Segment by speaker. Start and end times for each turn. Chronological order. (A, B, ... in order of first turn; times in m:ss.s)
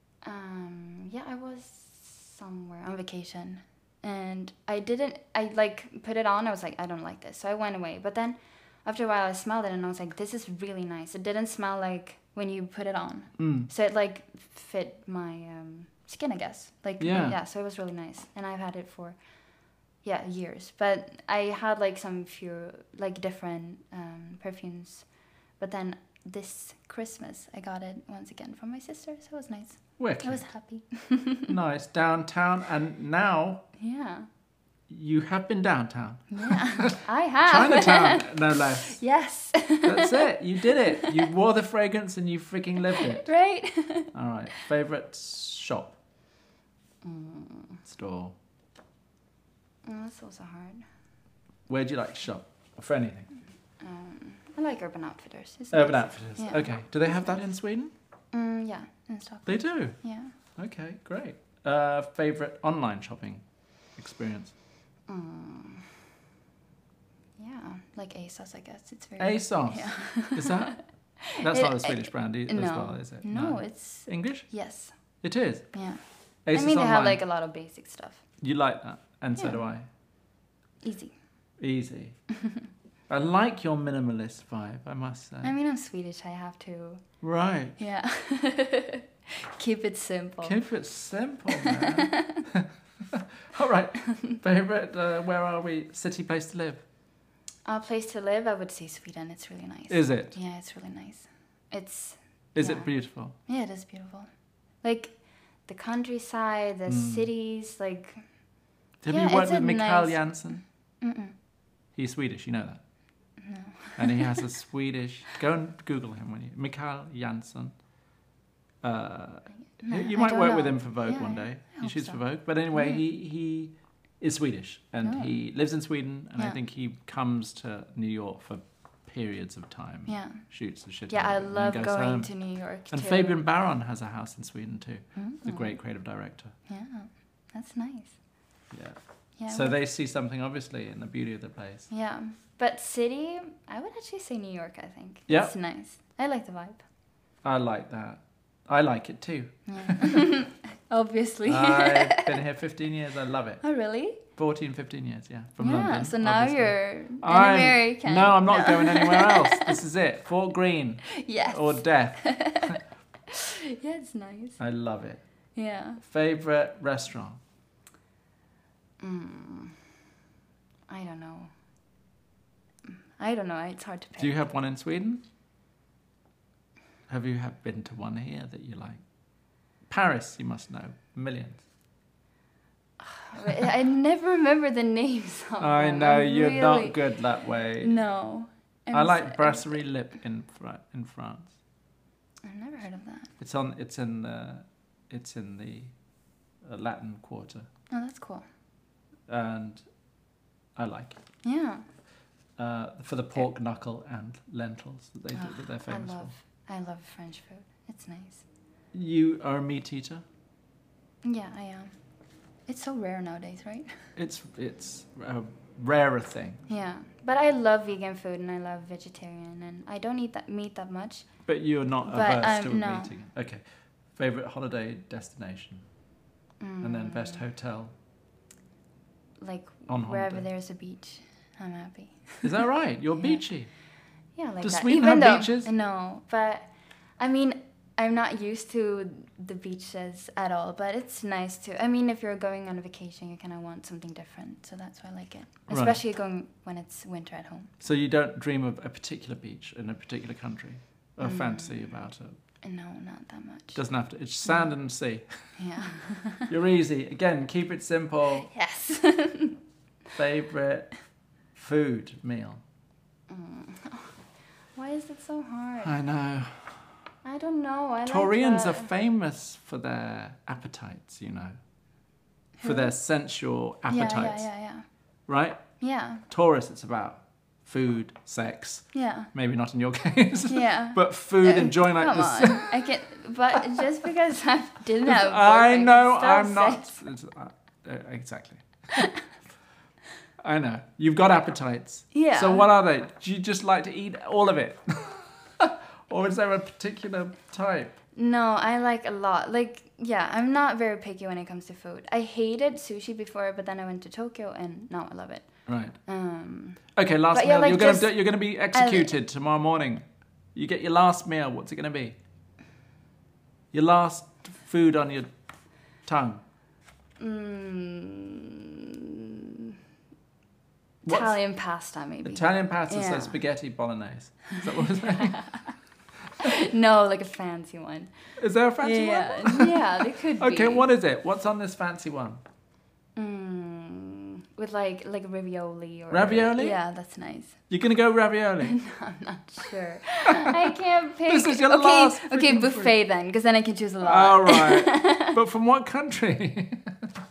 0:00.2-0:19.2 A
0:13.4-0:13.7 B
0:17.0-0:17.4 B
0:20.0-0:25.1 A
0:25.6-0:31.5 A
0:30.0-0:30.4 B
0:31.5-0:33.6 B
0:33.8-0:34.3 A
0:34.9-0:39.0 B
0:36.3-0:41.3 A
0:39.8-0:43.3 B
0:42.9-0:44.1 A
0:44.1-0:46.0 B
0:47.0-0:47.8 A
0:47.9-0:48.3 B
0:49.8-0:50.8 A
0:51.7-0:53.3 B
0:53.8-0:57.4 A
0:55.7-0:57.9 B
0:58.3-1:00.4 A
0:59.5-1:00.0 B
1:00.6-1:03.4 B
1:04.0-1:04.5 B
1:05.1-1:05.9 A
1:07.4-1:10.8 A
1:09.2-1:10.8 B
1:11.3-1:15.0 A
1:11.3-1:14.5 B
1:15.2-1:15.7 B
1:15.7-1:18.2 A
1:16.5-1:17.2 B
1:18.4-1:19.9 B
1:19.4-1:19.6 A
1:20.8-1:21.2 A
1:21.6-1:22.2 B
1:23.1-1:25.5 B
1:25.4-1:27.0 A
1:27.2-1:27.8 B
1:27.8-1:30.6 A
1:30.4-1:36.8 B
1:31.5-1:32.4 A
1:37.6-1:44.3 A
1:39.9-1:40.3 B
1:42.6-1:43.3 B
1:44.8-1:48.2 A
1:46.9-1:47.3 B
1:49.0-1:50.6 B
1:49.1-1:51.4 A
1:52.0-1:52.8 B
1:53.4-1:54.5 A
1:54.0-1:57.7 B
1:58.8-2:12.3 B
1:59.5-2:02.2 A
2:02.7-2:03.0 A
2:05.0-2:05.4 A
2:10.1-2:10.4 A
2:11.1-2:13.4 A
2:12.9-2:16.5 B
2:15.2-2:15.8 A
2:16.7-2:18.2 A
2:18.7-2:19.0 B
2:19.4-2:19.8 A
2:19.5-2:21.9 B
2:21.9-2:26.8 A
2:25.3-2:25.5 B
2:27.4-2:30.2 B
2:29.7-2:32.4 A
2:31.5-2:33.6 B
2:33.6-2:34.2 A
2:34.3-2:42.8 B
2:35.6-2:39.8 A
2:41.1-2:42.8 A
2:43.3-2:44.6 A
2:44.6-2:45.2 B
2:45.6-2:46.0 A
2:46.0-2:47.4 B
2:49.0-2:49.8 A
2:50.9-2:51.5 A
2:52.9-2:54.5 A
2:54.2-2:55.2 B
2:57.1-2:59.0 B
2:59.9-3:01.6 B
3:03.0-3:07.2 A
3:05.6-3:08.0 B
3:07.8-3:09.8 A
3:08.9-3:11.5 B
3:12.4-3:13.3 A
3:13.4-3:15.9 B
3:16.6-3:17.7 B
3:17.9-3:18.4 A
3:19.3-3:19.8 B
3:20.8-3:21.2 B
3:21.4-3:21.8 A
3:22.6-3:26.3 B
3:25.3-3:28.4 A
3:28.9-3:30.2 B
3:31.2-3:31.9 A
3:32.7-3:33.9 A
3:34.2-3:36.6 B
3:36.7-3:41.3 A
3:41.5-3:43.6 B
3:42.1-3:43.2 A
3:44.1-3:45.8 B
3:46.6-3:47.4 A
3:46.8-3:47.9 B
3:49.4-3:52.6 A
3:49.9-3:50.5 B
3:52.4-3:53.7 B
3:53.2-3:53.4 A
3:54.4-3:56.7 A
3:54.6-3:55.7 B
3:57.2-4:07.7 A
4:05.7-4:06.0 B
4:07.8-4:12.4 B
4:11.2-4:12.0 A
4:12.6-4:13.8 A
4:13.8-4:15.2 B
4:14.4-4:14.7 A
4:15.6-4:16.5 A
4:16.5-4:18.5 B
4:18.4-4:19.6 A
4:20.2-4:21.0 B
4:21.6-4:22.6 B
4:23.3-4:24.2 A
4:24.8-4:26.0 A
4:25.8-4:26.8 B
4:27.2-4:28.9 A
4:28.1-4:31.6 B
4:32.6-4:33.0 A
4:32.6-4:34.5 B
4:33.9-4:34.9 A
4:35.3-4:35.6 B
4:35.8-4:36.2 A
4:36.3-4:42.9 B
4:38.9-4:39.3 A
4:40.5-4:47.0 A
4:45.0-4:49.1 B
4:50.4-4:57.9 B
4:52.1-4:52.7 A
4:58.2-5:05.5 A
5:05.7-5:06.0 B
5:06.0-5:09.1 A
5:07.0-5:12.2 B
5:13.7-5:15.3 B
5:16.0-5:16.4 B
5:17.2-5:19.8 A
5:21.0-5:21.4 B
5:21.1-5:23.4 A
5:22.2-5:25.4 B
5:24.6-5:25.7 A
5:26.4-5:28.1 A
5:28.4-5:32.4 B
5:28.8-5:30.9 A
5:33.2-5:37.6 A
5:36.1-5:36.8 B
5:37.7-5:38.8 B
5:38.6-5:45.4 A
5:40.3-5:40.6 B
5:41.3-5:42.9 B
5:44.0-5:47.0 B